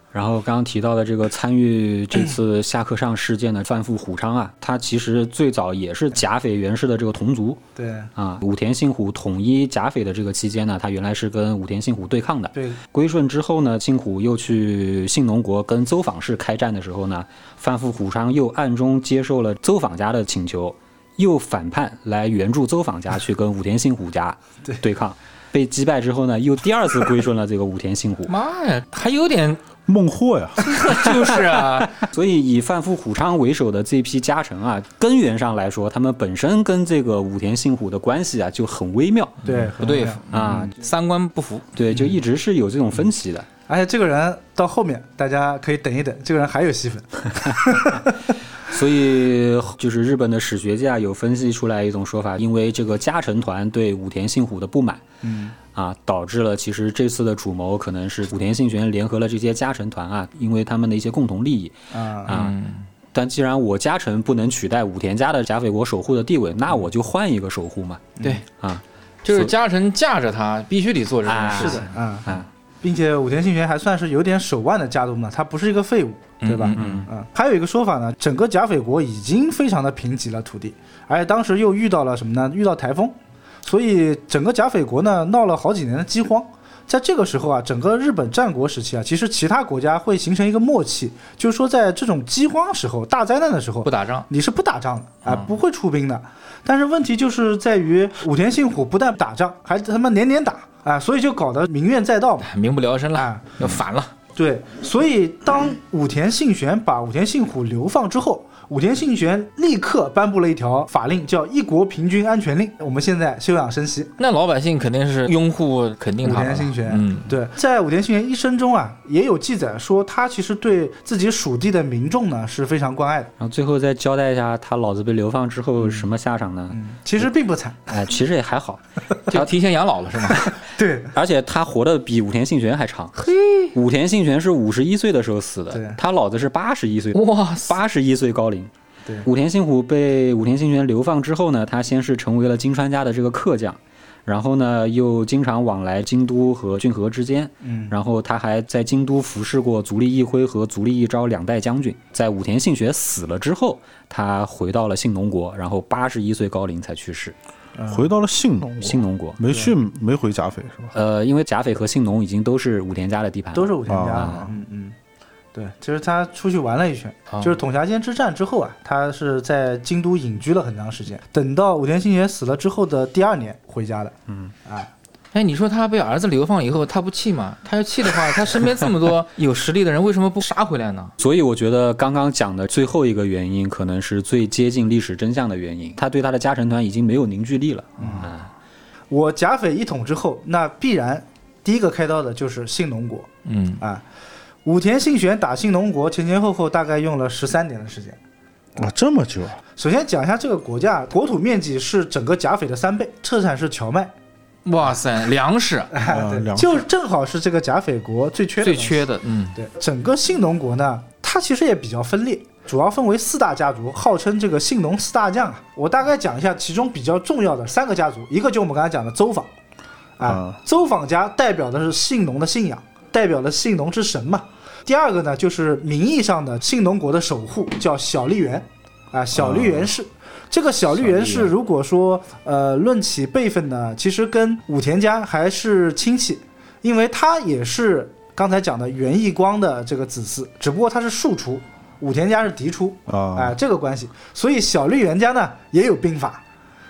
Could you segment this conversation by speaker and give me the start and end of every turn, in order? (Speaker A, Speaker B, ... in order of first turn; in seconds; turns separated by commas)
Speaker A: 0.1-7.6, Speaker B: 7.8-8.1, Speaker A: 8.1-28.3, Speaker C: 28.3-29.6, Speaker D: 29.9-30.7, Speaker C: 30.6-31.9, Speaker A: 30.9-39.4, Speaker B: 39.4-40.2, Speaker C: 39.6-41.6, Speaker A: 40.3-40.8, Speaker A: 41.7-43.5, Speaker B: 43.7-48.1, Speaker A: 48.7-55.0, Speaker B: 55.2-55.5, Speaker A: 55.7-61.7, Speaker B: 61.9-62.3, Speaker A: 62.2-62.5, Speaker C: 62.2-62.9, Speaker A: 63.1-69.5, Speaker C: 69.2-71.9, Speaker A: 71.2-72.5, Speaker B: 71.5-102.5, Speaker C: 76.4-77.0, Speaker A: 76.7-77.1, Speaker C: 93.8-94.3, Speaker C: 102.4-104.1, Speaker B: 103.1-103.5, Speaker B: 104.4-114.1, Speaker C: 114.2-117.3, Speaker B: 116.2-123.3, Speaker A: 123.4-127.3, Speaker B: 126.7-127.8, Speaker A: 127.9-129.5, Speaker C: 129.3-130.5, Speaker B: 130.7-131.1, Speaker A: 131.1-138.7, Speaker C: 133.2-133.7, Speaker B: 135.7-136.0, Speaker C: 137.1-137.7, Speaker A: 139.2-157.3, Speaker B: 147.6-147.9, Speaker B: 157.8-158.1, Speaker D: 157.9-160.9, Speaker A: 158.8-159.4, Speaker A: 160.9-164.4, Speaker B: 163.5-164.9, Speaker D: 163.9-164.4, Speaker B: 165.5-174.9, Speaker C: 167.3-167.6, Speaker C: 175.3-181.1, Speaker A: 181.2-188.5, Speaker B: 188.0-188.3, Speaker B: 189.1-193.3, Speaker C: 193.4-193.8, Speaker B: 194.6-198.2, Speaker D: 198.8-199.6, Speaker B: 199.8-204.1, Speaker C: 204.6-205.9, Speaker B: 205.9-219.5, Speaker D: 206.0-206.9, Speaker C: 208.6-209.6, Speaker B: 220.2-246.4, Speaker D: 220.2-220.6, Speaker D: 229.3-229.9, Speaker C: 231.0-231.5, Speaker D: 243.1-243.6